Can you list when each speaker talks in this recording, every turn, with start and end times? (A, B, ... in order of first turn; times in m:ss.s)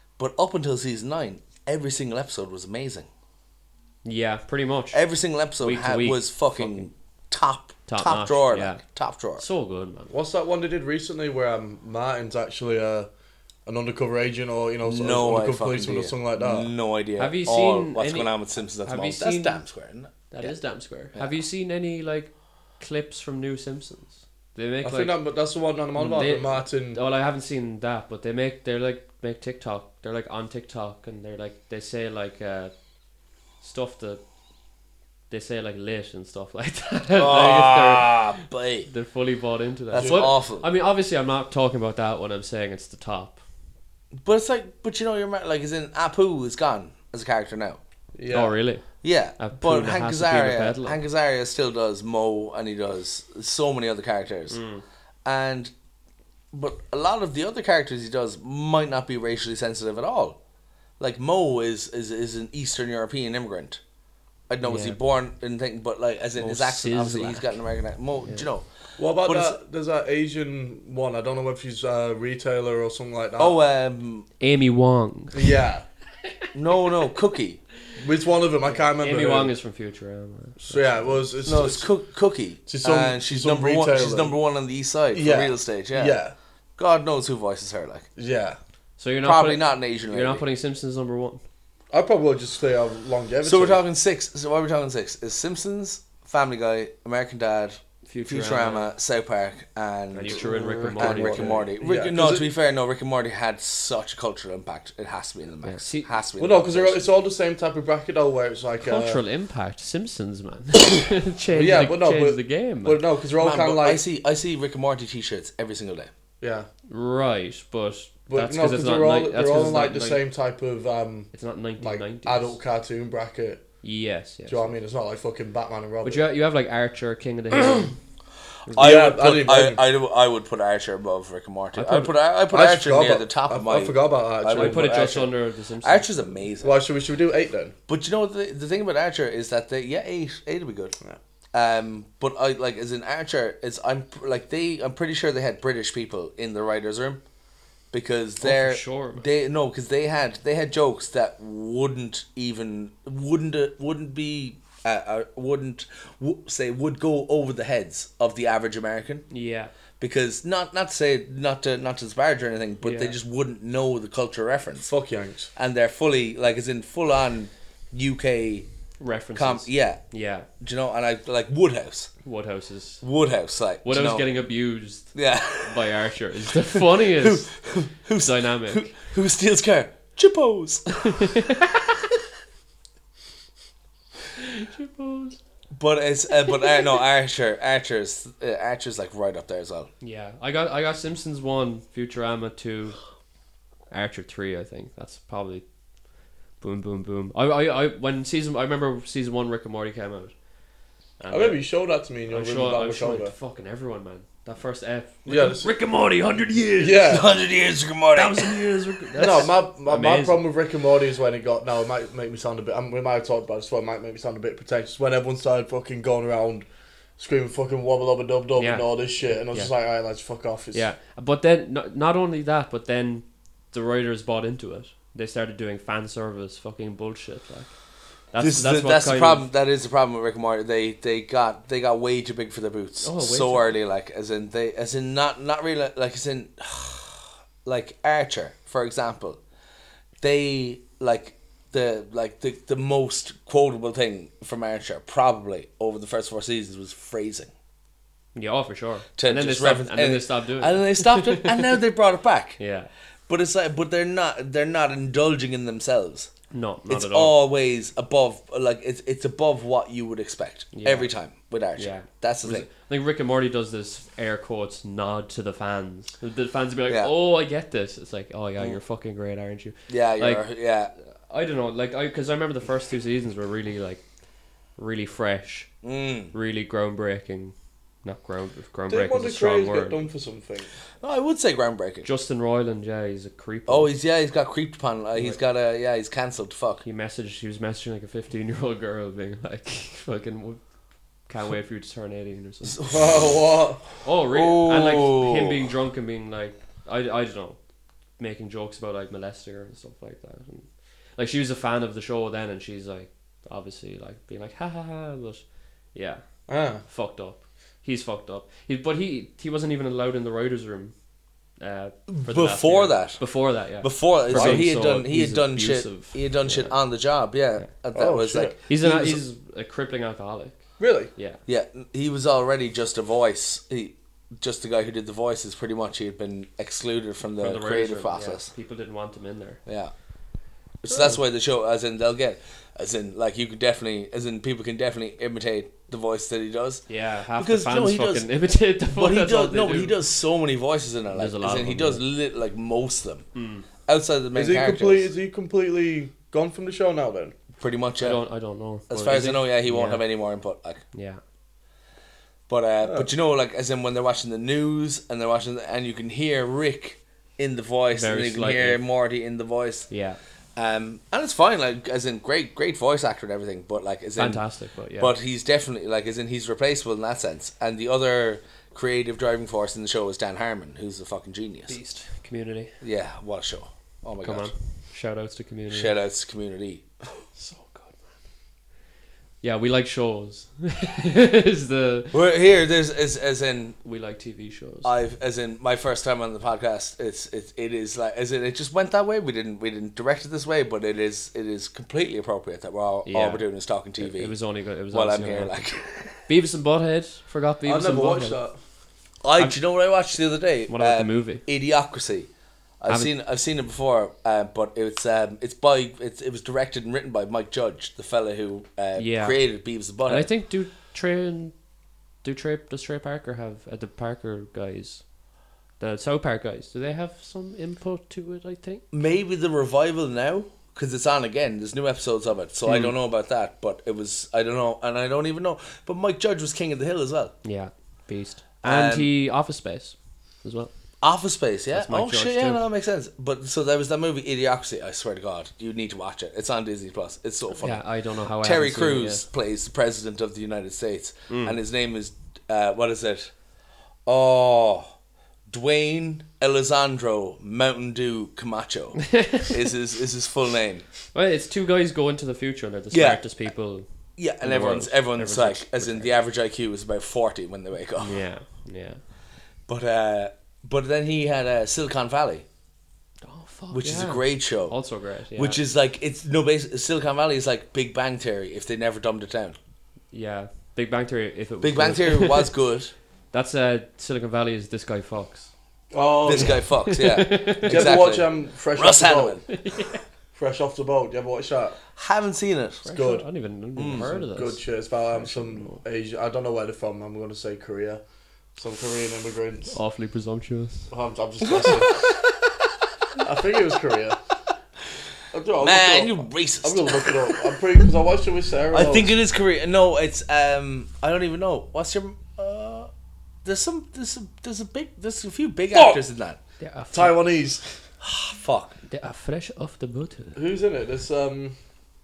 0:00.2-0:03.1 A
0:04.0-0:05.0 B
0:04.9-0:09.4 A
0:05.6-0:06.9 B
0:07.9-0:08.8 B
0:09.4-0:10.1 B
0:10.1-0:13.1 C
0:13.6-0:16.7 C
0:14.8-0:20.6 A
0:17.2-0:19.6 B
0:20.3-0:25.2 B
0:24.8-0:27.0 C
0:26.0-0:32.8 B
0:33.6-0:34.2 B
0:35.3-0:43.4 B
0:37.2-0:38.9 A
0:39.9-0:40.7 A
0:40.0-0:40.3 C
0:44.1-0:47.8 A
0:48.1-0:48.6 C
0:48.3-0:51.0 B
0:49.0-0:54.6 A
0:54.5-0:54.8 B
0:55.2-0:55.7 A
0:56.5-1:00.4 A
1:01.0-1:03.8 A
1:04.5-1:09.6 A
1:04.6-1:05.0 B
1:06.4-1:07.6 B
1:08.2-1:08.5 B
1:09.0-1:13.6 C
1:13.4-1:14.3 A
1:14.4-1:15.5 B
1:15.3-1:15.8 C
1:16.5-1:17.6 A
1:18.0-1:19.5 C
1:18.7-1:21.2 B
1:20.6-1:21.9 C
1:21.4-1:26.2 A
1:22.6-1:24.4 C
1:25.1-1:26.3 C
1:26.8-1:28.1 A
1:28.2-1:28.6 C
1:29.0-1:31.4 B
1:29.2-1:30.4 A
1:31.9-1:33.8 C
1:33.4-1:47.0 A
1:38.0-1:38.9 B
1:40.1-1:41.6 B
1:40.3-1:42.5 C
1:45.6-1:46.1 B
1:46.4-1:49.2 C
1:48.8-1:53.0 B
1:51.5-1:54.0 C
1:53.4-1:56.1 A
1:56.4-1:56.7 C
1:56.9-2:00.2 B
1:58.3-2:03.7 C
2:01.3-2:02.6 B
2:03.8-2:04.7 B
2:04.5-2:06.2 C
2:06.0-2:08.0 B
2:08.7-2:08.9 B
2:08.7-2:16.8 A
2:08.8-2:09.8 C
2:11.7-2:12.1 B
2:12.5-2:15.1 C
2:14.5-2:16.3 B
2:16.6-2:17.7 C
2:17.9-2:20.9 A
2:21.5-2:27.2 A
2:27.9-2:39.2 A
2:28.4-2:29.3 B
2:39.3-2:39.7 B
2:40.0-2:44.9 A
2:42.8-2:43.1 B
2:44.8-2:45.5 C
2:45.6-2:48.7 A
2:49.0-2:50.5 B
2:49.3-2:50.0 A
2:50.6-2:52.1 A
2:52.2-2:53.0 B
2:53.0-2:54.3 A
2:53.8-2:57.5 B
2:55.1-2:56.0 A
2:56.7-3:01.1 A
2:58.2-2:58.9 B
3:01.0-3:01.8 B
3:04.4-3:05.4 B
3:05.7-3:09.9 A
3:10.0-3:13.0 B
3:13.9-3:15.6 B
3:16.6-3:20.3 B
3:21.2-3:21.6 B
3:21.3-3:23.3 C
3:22.3-3:27.2 B
3:25.2-3:25.7 C
3:26.8-3:27.3 C
3:27.0-3:28.6 A
3:28.1-3:30.4 B
3:29.2-3:36.6 C
3:37.2-3:40.8 C
3:38.6-3:39.7 B
3:40.7-3:49.5 B
3:48.4-3:59.4 A
3:53.0-3:53.8 B
4:00.2-4:07.5 A
4:08.3-4:11.7 B
4:09.2-4:12.6 A
4:12.6-4:12.9 B
4:13.3-4:16.3 A
4:16.5-4:17.4 B
4:16.9-4:22.7 A
4:20.7-4:21.1 B
4:21.8-4:30.5 B
4:29.9-4:30.9 A
4:31.3-4:34.0 B
4:34.8-4:35.7 B
4:35.8-4:36.3 A
4:36.3-4:40.0 B
4:38.9-4:40.7 C
4:41.0-4:42.1 A
4:42.0-4:43.9 B
4:43.7-4:46.8 A
4:46.8-4:50.6 B
4:51.2-4:52.8 B
4:52.6-4:53.4 A
4:52.8-4:53.8 C
4:54.0-4:57.6 B
4:54.3-4:55.6 A
4:58.2-5:06.2 B
5:06.5-5:06.8 C
5:06.8-5:10.9 B
5:11.6-5:16.8 B
5:12.1-5:19.2 A
5:14.3-5:14.7 C
5:17.9-5:18.6 C
5:18.7-5:21.4 B
5:20.8-5:21.1 C
5:21.5-5:28.5 A
5:27.4-5:29.6 B
5:29.6-5:29.9 A
5:30.8-5:36.8 A
5:36.9-5:39.9 B
5:37.4-5:38.3 A
5:38.9-5:43.3 A
5:41.1-5:42.0 B
5:43.3-5:43.7 B
5:43.8-5:45.1 A
5:44.3-5:47.4 C
5:47.6-5:48.2 A
5:48.0-5:50.0 B
5:48.9-5:50.8 A
5:50.9-5:51.2 B
5:52.5-5:59.9 A
5:57.9-5:58.8 B
5:59.9-6:00.2 B
6:00.6-6:04.4 A
6:04.2-6:05.1 B
6:05.0-6:11.8 A
6:11.7-6:12.7 B
6:12.8-6:14.5 A
6:14.2-6:15.9 B
6:15.7-6:16.9 A
6:17.3-6:18.1 B
6:19.4-6:22.2 B
6:22.1-6:23.8 A
6:23.8-6:24.9 B
6:24.8-6:34.4 A
6:33.0-6:38.4 B
6:34.9-6:36.1 A
6:37.6-6:38.6 C
6:39.2-6:50.3 A
6:40.7-6:41.4 B
6:49.0-6:51.6 B
6:52.2-6:55.1 B
6:55.8-6:58.8 B
6:58.9-7:07.3 A
7:02.6-7:02.9 B
7:07.4-7:10.7 B
7:08.6-7:09.1 A
7:11.0-7:17.8 A
7:11.7-7:12.6 B
7:17.6-7:19.2 B
7:18.4-7:23.3 A
7:21.3-7:21.6 B
7:24.0-7:24.9 A
7:25.5-7:30.9 A
7:29.1-7:29.5 B
7:31.1-7:33.9 B
7:32.9-7:33.2 A
7:34.2-7:38.2 A
7:34.4-7:36.2 B
7:38.0-7:39.0 B
7:39.7-7:42.4 A
7:43.2-7:45.6 B
7:43.7-7:44.8 A
7:45.3-7:49.6 A
7:50.1-7:52.5 B
7:51.6-7:52.9 A
7:53.3-7:55.5 B
7:55.9-7:56.8 C
7:56.2-7:59.5 A
7:56.3-7:57.9 B
7:57.6-7:59.5 C
7:59.5-8:00.0 B
8:00.3-8:01.8 C
8:02.0-8:02.8 A
8:02.8-8:04.6 B
8:02.9-8:03.3 C
8:03.8-8:04.1 A
8:03.8-8:08.0 C
8:05.1-8:05.8 B
8:08.6-8:09.8 C
8:09.7-8:10.9 B
8:10.9-8:12.0 C
8:11.4-8:12.2 A
8:13.2-8:14.2 C
8:15.3-8:19.1 C
8:15.6-8:17.4 A
8:18.7-8:22.9 A
8:23.4-8:26.4 A
8:25.7-8:26.0 C
8:26.6-8:27.2 B
8:26.9-8:27.8 C
8:28.0-8:28.8 A
8:28.9-8:30.4 B
8:30.3-8:31.5 C